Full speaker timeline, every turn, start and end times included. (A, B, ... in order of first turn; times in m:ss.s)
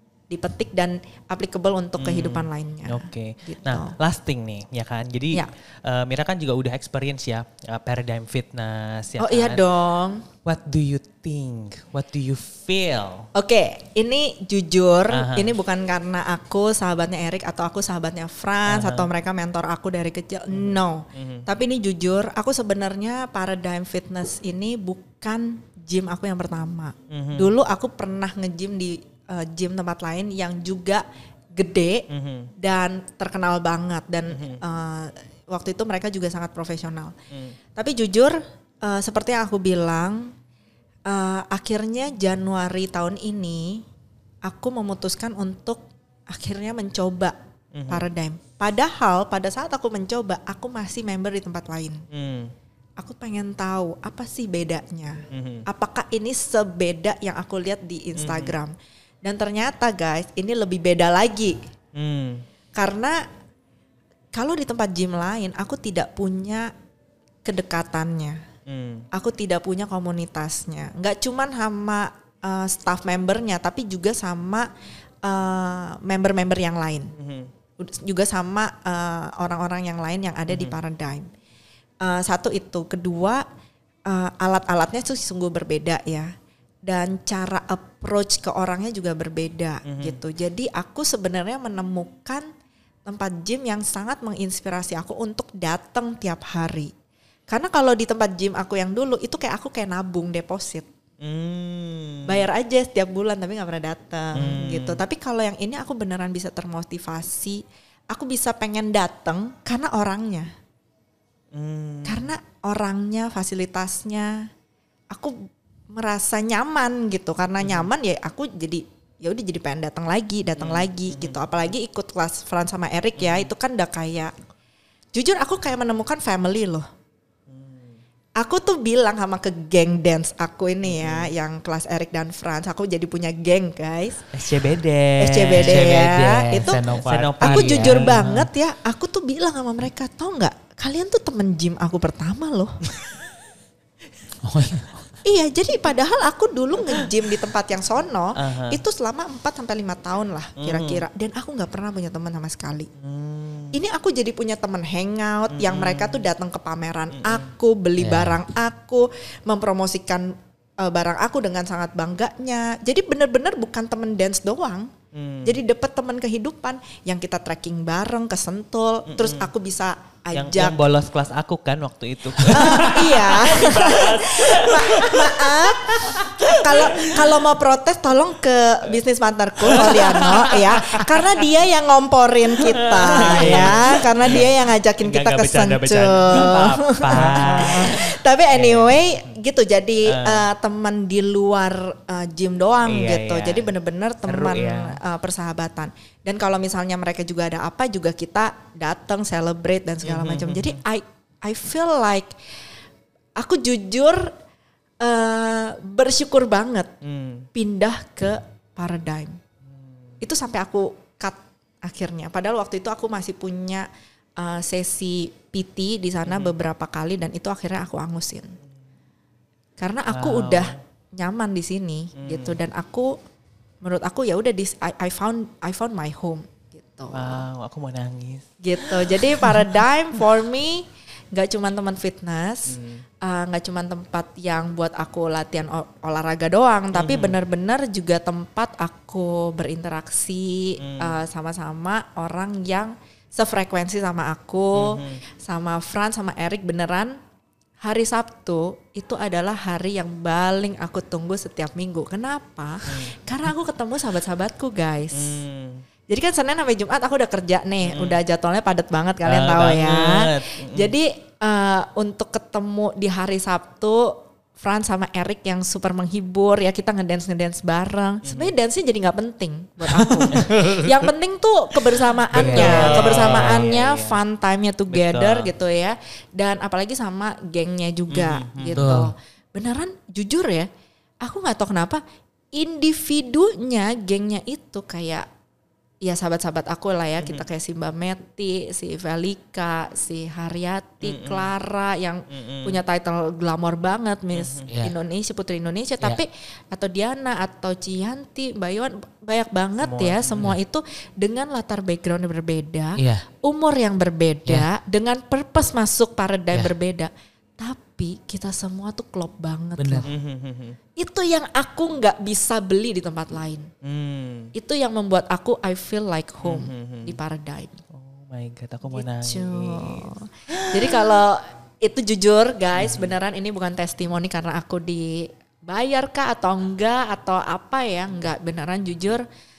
0:00.3-0:04.0 A
0:02.0-0:09.6 B
0:09.2-0:10.2 A
0:10.4-0:13.3 B
0:13.3-0:31.0 A
0:15.1-0:15.6 B
0:18.7-0:19.1 B
0:20.5-0:21.4 B
0:27.1-0:27.5 B
0:31.6-0:32.1 A
0:32.1-0:32.5 B
0:32.6-0:37.1 A
0:34.3-0:34.6 B
0:37.8-0:40.3 A
0:41.1-0:43.8 A
0:44.4-0:47.4 A
0:47.7-0:48.1 B
0:47.9-0:52.0 A
0:52.1-0:52.5 B
0:53.0-0:58.7 A
0:55.3-0:55.6 B
0:58.2-0:58.6 B
0:59.2-1:01.6 A
1:02.0-1:02.4 B
1:02.8-1:03.2 A
1:04.3-1:06.7 A
1:07.4-1:08.4 A
1:08.7-1:09.1 B
1:09.1-1:14.7 A
1:15.2-1:17.1 A
1:17.2-1:17.5 B
1:17.8-1:21.3 A
1:20.5-1:20.8 B
1:22.0-1:23.4 A
1:24.1-1:26.3 A
1:26.9-1:32.5 A
1:29.8-1:30.2 B
1:33.1-1:36.9 A
1:37.5-1:40.9 A
1:41.2-1:42.4 B
1:42.3-1:50.5 A
1:44.4-1:45.0 B
1:51.5-1:52.3 B
1:52.1-1:54.5 A
1:55.1-1:55.4 A
1:55.9-2:04.3 A
1:57.6-1:57.9 B
2:00.6-2:01.4 B
2:03.2-2:03.5 B
2:05.2-2:06.9 A
2:07.5-2:08.0 B
2:08.4-2:14.2 A
2:10.8-2:11.3 B
2:14.3-2:18.4 B
2:15.2-2:16.8 A
2:15.6-2:18.5 C
2:17.4-2:22.8 A
2:24.4-2:24.9 C
2:25.2-2:32.9 A
2:28.4-2:28.8 B
2:30.6-2:31.0 B
2:33.0-2:33.8 B
2:33.7-2:44.9 A
2:35.5-2:36.2 B
2:37.2-2:37.5 B
2:38.0-2:38.4 C
2:45.1-2:45.6 B
2:45.4-2:50.8 A
2:49.1-2:49.5 B
2:50.4-2:57.4 B
2:52.5-3:22.3 A
2:52.6-2:52.9 C
2:59.6-3:01.3 B
3:02.7-3:09.1 B
3:03.2-3:03.5 C
3:07.2-3:07.8 C
3:10.1-3:10.5 B
3:12.9-3:13.7 B
3:14.3-3:15.0 B
3:20.0-3:20.8 B
3:23.4-3:24.3 A
3:25.0-3:26.9 A
3:27.0-3:27.5 B
3:27.5-3:29.4 A
3:29.7-3:30.0 B
3:30.2-3:33.9 A
3:34.4-3:38.6 A
3:36.2-3:36.5 B
3:39.8-3:43.2 A
3:40.1-3:40.8 B
3:42.2-3:42.6 B
3:43.8-3:47.4 A
3:47.1-3:49.7 B
3:48.6-4:07.2 A
3:52.7-3:53.0 B
3:56.9-3:57.4 B
4:00.8-4:01.1 B
4:04.7-4:05.2 B
4:07.8-4:15.4 A
4:12.9-4:13.1 B
4:15.1-4:15.8 B
4:16.1-4:40.7 A
4:17.8-4:18.2 B
4:19.2-4:20.9 B
4:28.2-4:28.5 B
4:29.8-4:31.1 C
4:32.3-4:33.5 C
4:32.3-4:34.2 B
4:34.9-4:35.5 B
4:38.1-4:38.9 B
4:38.8-4:39.1 C
4:41.2-4:42.0 A
4:42.5-4:45.3 A
4:46.0-5:10.1 A
4:51.0-4:51.5 B
4:52.3-4:52.8 B
4:54.3-4:54.7 B
4:54.7-4:54.9 C
4:59.8-5:00.6 B
5:03.0-5:03.2 C
5:09.8-5:10.1 C
5:10.1-5:10.8 B
5:11.0-5:13.7 A
5:13.8-5:14.5 B
5:14.6-5:17.8 A
5:16.4-5:17.2 B
5:17.9-5:21.2 B
5:18.9-5:29.2 A
5:22.8-5:23.1 B